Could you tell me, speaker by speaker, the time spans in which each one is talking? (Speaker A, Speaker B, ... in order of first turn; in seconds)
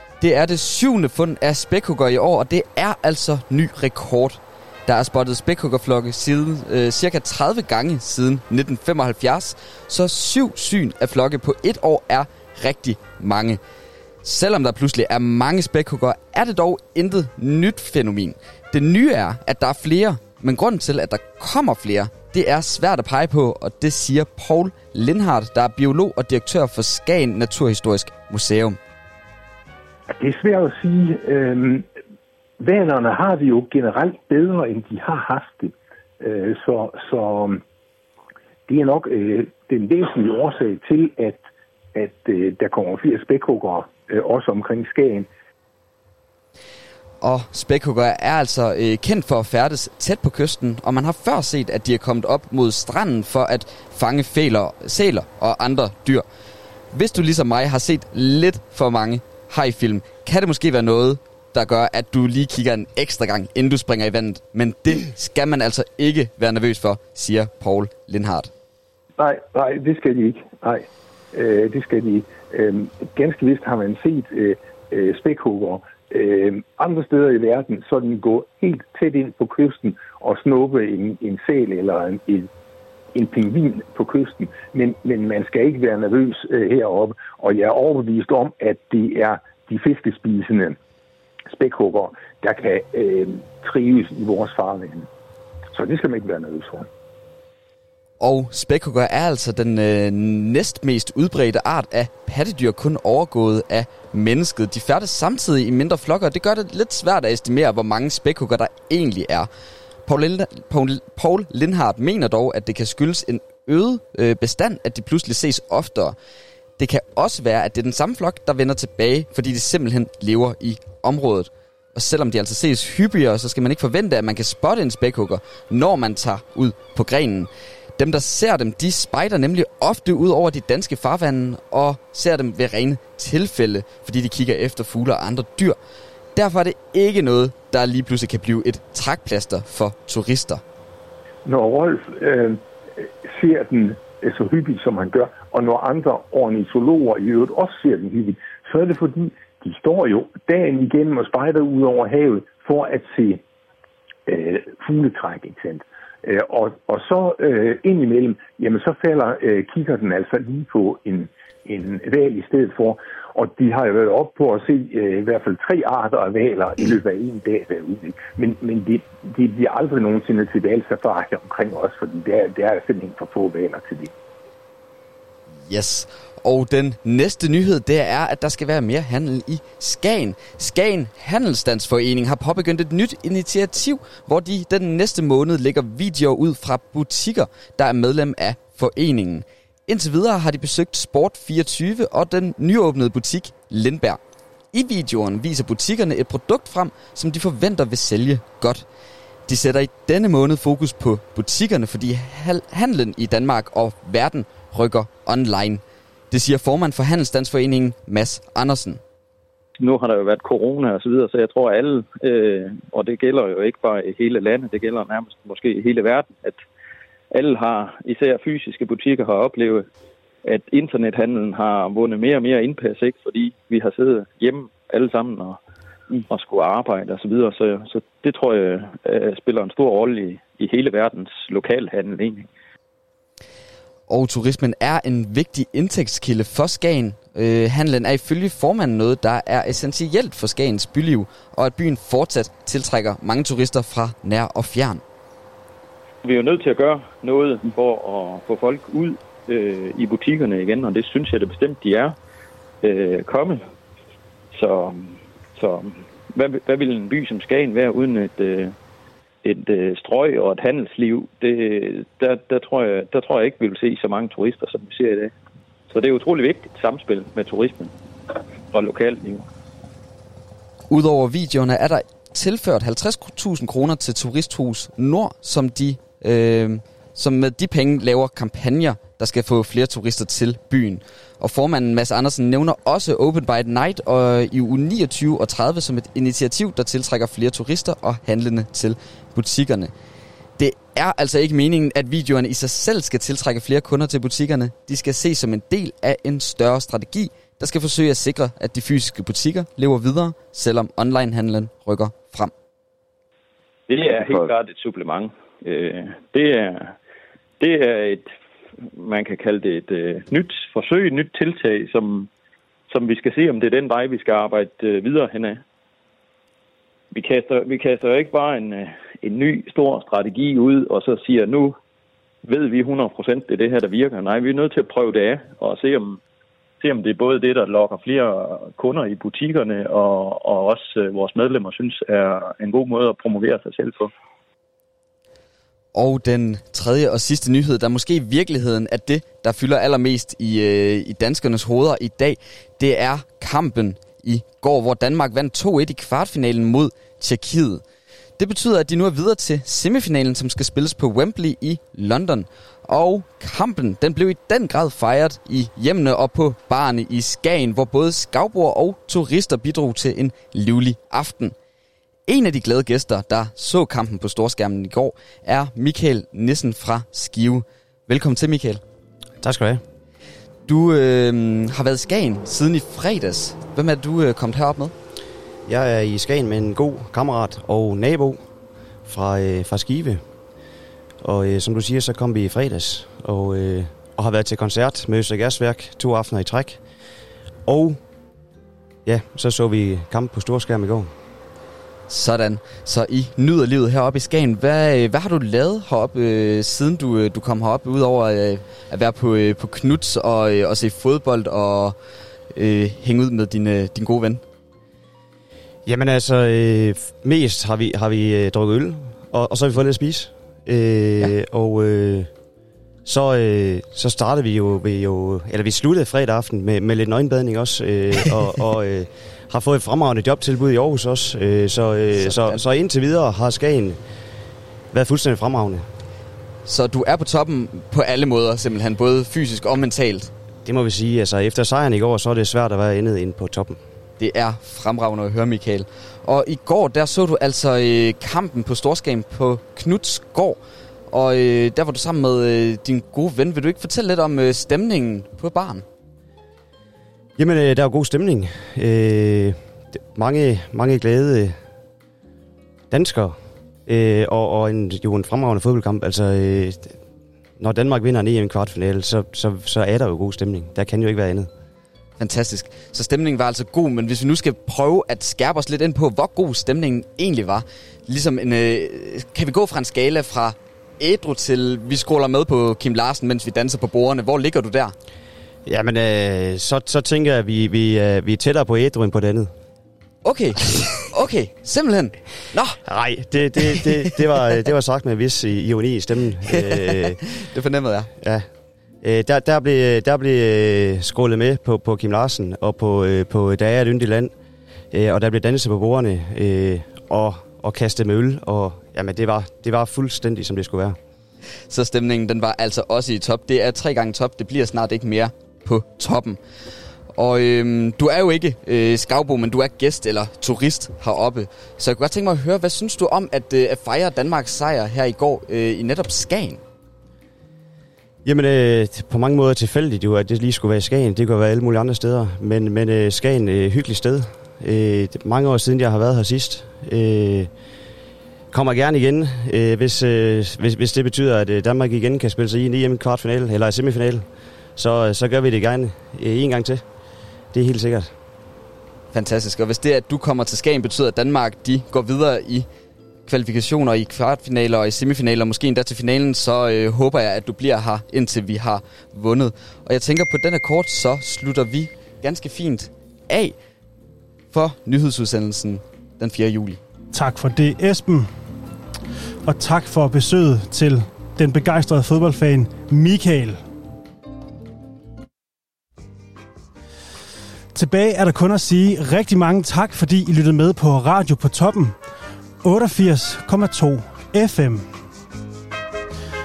Speaker A: 0.2-13.6, 14.2-28.8, 47.2-56.2, 56.9-68.5, 98.2-109.5, 110.1-116.2, 116.8-135.8, 136.3-140.6, 175.7-194.2, 194.7-198.8, 199.5-209.0, 234.1-245.0, 270.9-289.9, 290.6-302.5, 335.9-347.8, 348.4-361.6, 362.3-368.8, 370.7-374.9, 392.1-402.0, 402.5-404.4, 426.7-430.3, 434.2-440.6, 441.1-445.9, 462.2-474.9, 480.2-482.8, 486.5-488.1, 501.7-506.4, 507.2-516.6, 539.1-542.7, 543.3-553.6, 554.5-556.8
Speaker B: 30.2-31.9, 32.6-37.6, 38.7-41.4, 42.0-45.3, 69.2-82.5, 83.1-90.8, 91.5-95.1, 95.7-96.9, 141.4-153.4, 154.3-174.1
Speaker C: 209.8-216.6, 217.3-219.9, 220.4-225.6, 226.1-232.5, 246.2-252.2, 252.8-253.7, 254.5-258.8, 259.4-265.3, 265.9-267.9, 268.7-269.4, 303.9-306.9, 307.6-308.3, 309.0-312.3, 312.9-315.6, 317.1-321.8, 322.5-326.2, 326.8-334.1
Speaker D: 369.4-369.8, 375.7-378.4, 379.1-380.2, 381.2-386.8, 387.7-388.0, 389.1-391.1, 405.9-412.3, 413.1-424.0, 424.9-425.9, 430.6-433.8, 447.4-449.6, 450.1-451.6, 452.9-457.0, 457.6-461.5, 475.7-479.5, 482.9-487.2, 488.1-488.5, 489.0-494.3, 494.9-501.0, 518.2-527.5, 528.5-534.3, 534.8-536.8, 537.5-538.1
Speaker E: 557.1-558.3, 559.5-563.6, 567.7-572.0, 572.6-574.9